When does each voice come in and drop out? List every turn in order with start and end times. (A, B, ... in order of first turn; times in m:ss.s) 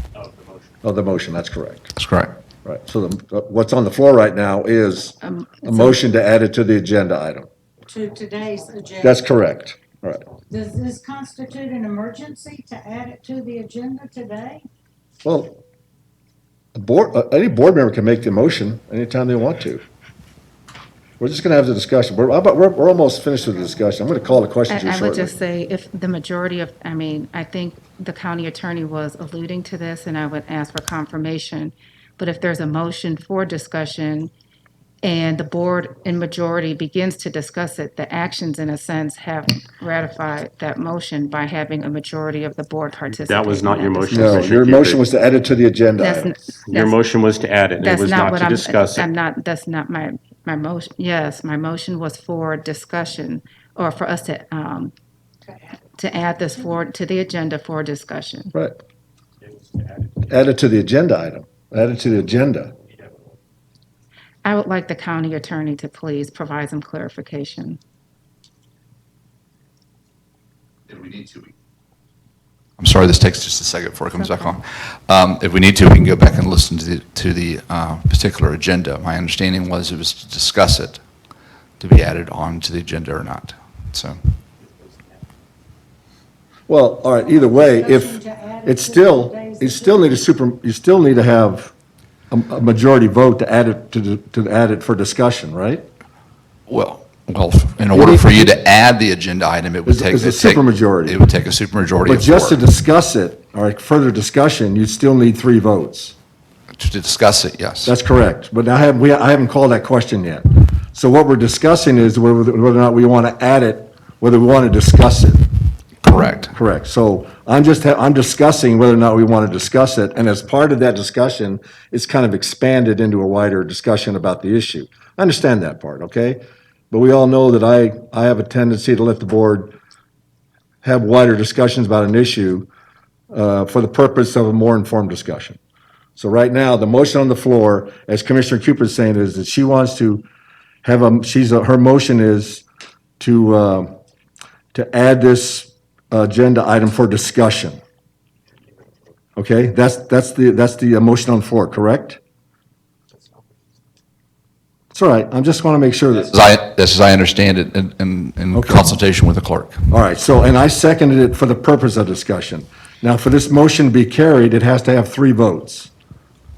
0:00.2-0:00.7 A
0:00.8-0:01.9 B
0:02.0-0:02.3 C
0:02.6-0:07.5 B
0:05.2-0:06.0 D
0:07.9-0:09.2 E
0:09.0-0:10.2 B
0:10.5-0:14.6 E
0:15.2-0:15.6 B
0:16.8-0:19.8 B
0:21.2-0:25.3 B
0:24.7-0:34.3 D
0:35.0-0:44.5 D
0:43.1-0:45.0 A
0:44.1-0:46.3 B
0:46.0-0:47.0 D
0:46.7-0:49.1 A
0:47.8-0:54.9 D
0:56.0-0:58.5 D
1:00.2-1:02.7 B
1:04.4-1:07.8 D
1:10.9-1:11.5 C
1:12.8-1:21.0 C
1:14.2-1:14.6 D
1:21.8-1:24.2 C
1:26.7-1:31.7 B
1:27.2-1:30.1 E
1:32.3-1:35.8 B
1:36.7-1:42.6 C
1:37.9-1:38.6 B
1:39.8-1:41.2 B
1:42.0-1:46.2 B
1:46.7-1:47.9 C
1:47.8-1:55.4 B
1:56.0-1:56.5 C
1:56.5-2:09.7 B
2:10.8-2:12.7 B
2:13.3-2:15.6 B
2:16.2-2:20.2 B
2:20.8-2:22.6 B
2:23.2-2:23.9 B
2:24.7-2:27.8 B
2:29.4-2:32.2 B
2:34.9-2:36.3 B
2:36.2-2:39.8 C
2:38.5-2:38.9 B
2:39.9-2:45.9 B